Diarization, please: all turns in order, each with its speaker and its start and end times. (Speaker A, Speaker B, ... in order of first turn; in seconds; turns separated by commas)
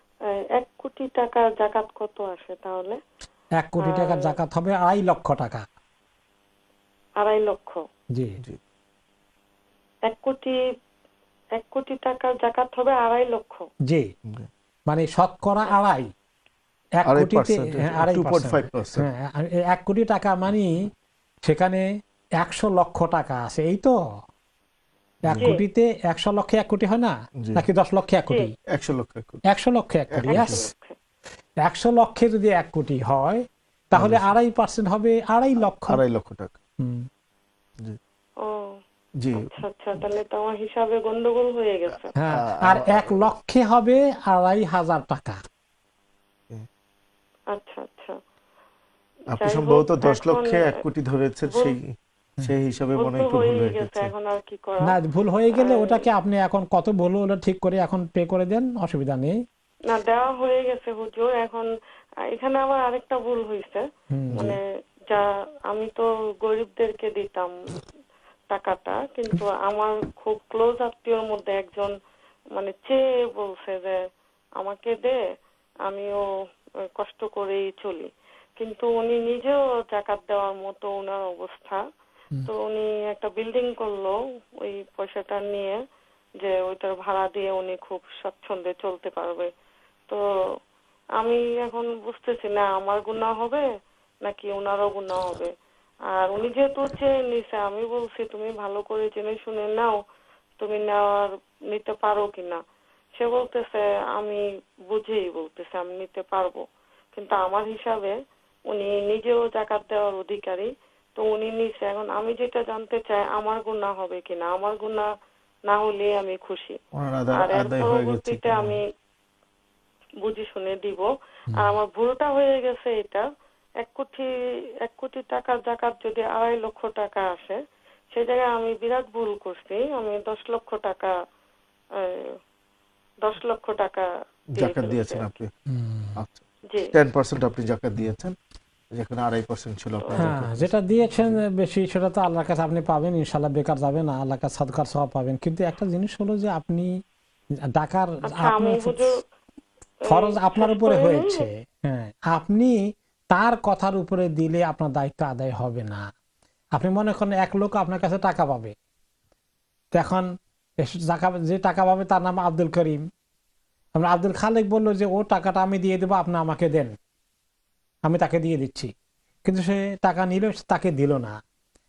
Speaker A: 0.5-3.0, Speaker B: 3.6-5.7, Speaker A: 3.8-4.3, Speaker A: 7.2-7.8, Speaker B: 8.2-8.4, Speaker A: 10.1-10.6, Speaker A: 11.6-13.7, Speaker B: 14.9-16.1, Speaker B: 17.0-20.9, Speaker C: 17.1-19.1, Speaker B: 21.4-21.9, Speaker B: 22.4-24.0, Speaker B: 25.2-28.5, Speaker C: 27.4-27.6, Speaker C: 28.7-29.4, Speaker B: 29.5-30.6, Speaker C: 30.1-30.7, Speaker A: 30.3-31.0, Speaker B: 31.6-36.0, Speaker C: 34.0-34.4, Speaker C: 35.8-36.6, Speaker B: 36.8-37.1, Speaker A: 38.4-38.8, Speaker C: 39.2-39.5, Speaker A: 39.4-42.1, Speaker B: 42.2-45.4, Speaker C: 42.4-43.2, Speaker A: 47.5-48.2, Speaker A: 49.3-50.6, Speaker C: 49.3-51.9, Speaker C: 52.4-54.1, Speaker A: 53.0-55.0, Speaker B: 54.8-59.4, Speaker A: 55.5-56.0, Speaker A: 59.9-61.7, Speaker A: 62.3-63.8, Speaker B: 64.1-64.5, Speaker A: 64.4-67.5, Speaker A: 68.5-71.9, Speaker A: 72.5-74.0, Speaker A: 74.6-75.2, Speaker A: 75.8-76.2, Speaker A: 77.0-81.8, Speaker A: 82.5-85.8, Speaker A: 86.4-89.5, Speaker A: 91.2-93.6, Speaker A: 94.2-95.5, Speaker A: 96.1-100.0, Speaker A: 100.6-102.6, Speaker A: 103.2-108.2, Speaker A: 108.7-115.1, Speaker A: 115.7-116.8, Speaker C: 117.0-118.8, Speaker A: 117.4-118.8, Speaker A: 120.2-123.2, Speaker A: 123.8-124.3, Speaker A: 124.8-127.6, Speaker A: 128.1-131.1, Speaker A: 132.0-132.3, Speaker A: 133.2-134.1, Speaker C: 134.6-135.5, Speaker A: 134.6-135.3, Speaker B: 135.7-136.2, Speaker C: 136.9-138.4, Speaker C: 138.9-141.4, Speaker A: 140.0-140.3, Speaker B: 140.2-146.9, Speaker B: 147.7-149.1, Speaker A: 148.3-149.1, Speaker B: 150.1-156.1, Speaker A: 150.1-151.4, Speaker B: 156.8-158.7, Speaker B: 159.9-160.3, Speaker B: 160.8-163.0, Speaker B: 164.0-166.9, Speaker B: 168.1-168.9, Speaker B: 169.4-171.4